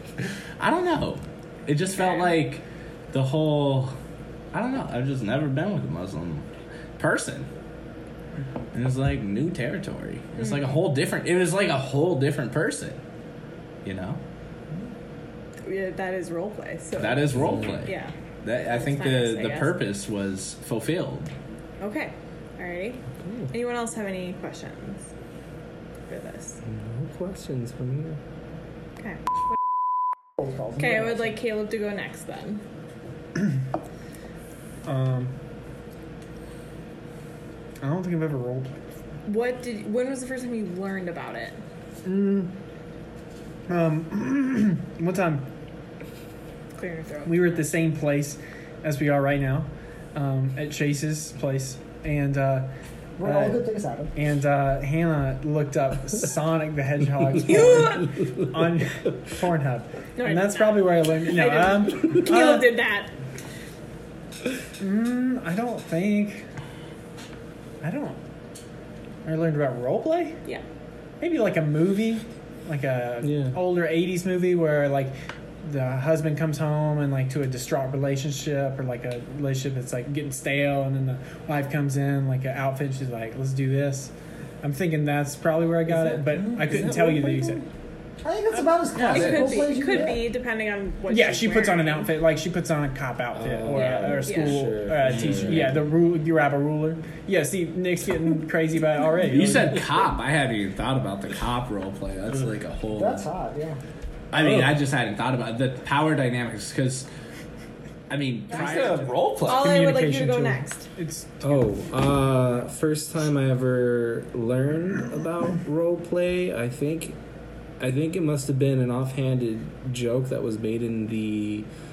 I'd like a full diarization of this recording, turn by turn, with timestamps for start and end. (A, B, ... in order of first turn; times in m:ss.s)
0:00.6-0:04.0 A
0:01.9-0:02.4 B
0:04.5-0:06.5 A
0:07.0-0:07.5 A
0:08.7-0:13.0 A
0:10.4-0:10.7 B
0:13.8-0:14.2 A
0:15.6-0:18.1 B
0:17.0-0:21.3 A
0:17.3-0:17.8 C
0:18.7-0:19.8 B
0:21.8-0:25.0 B
0:23.2-0:23.5 C
0:26.1-0:26.6 B
0:26.6-0:28.2 C
0:30.4-0:31.4 D
0:30.8-0:32.6 B
0:34.8-0:35.3 E
0:37.8-0:38.8 E
0:39.2-0:41.6 B
0:42.0-0:42.5 E
0:43.7-0:45.4 E
0:46.8-0:47.7 B
0:47.2-0:52.7 E
0:53.2-0:54.1 D
0:53.2-0:53.6 E
0:54.2-1:02.7 E
0:57.4-0:58.1 B
0:57.6-0:58.3 C
1:00.2-1:03.1 B
1:04.8-1:06.4 E
1:07.8-1:08.2 E
1:09.2-1:10.4 E
1:11.2-1:24.1 E
1:13.2-1:13.6 C
1:24.6-1:27.6 E
1:26.3-1:27.6 D
1:28.2-1:30.2 D
1:28.9-1:29.7 A
1:29.0-1:32.1 B
1:31.1-1:39.8 E
1:33.3-1:36.0 C
1:33.7-1:34.6 B
1:35.0-1:35.8 A
1:39.2-1:43.2 A
1:42.9-1:43.8 D
1:44.3-1:47.1 A
1:44.3-1:44.8 C
1:48.1-1:49.8 A
1:48.5-1:51.7 E
1:48.5-1:50.9 B
1:51.4-1:57.2 C
1:57.8-2:01.7 C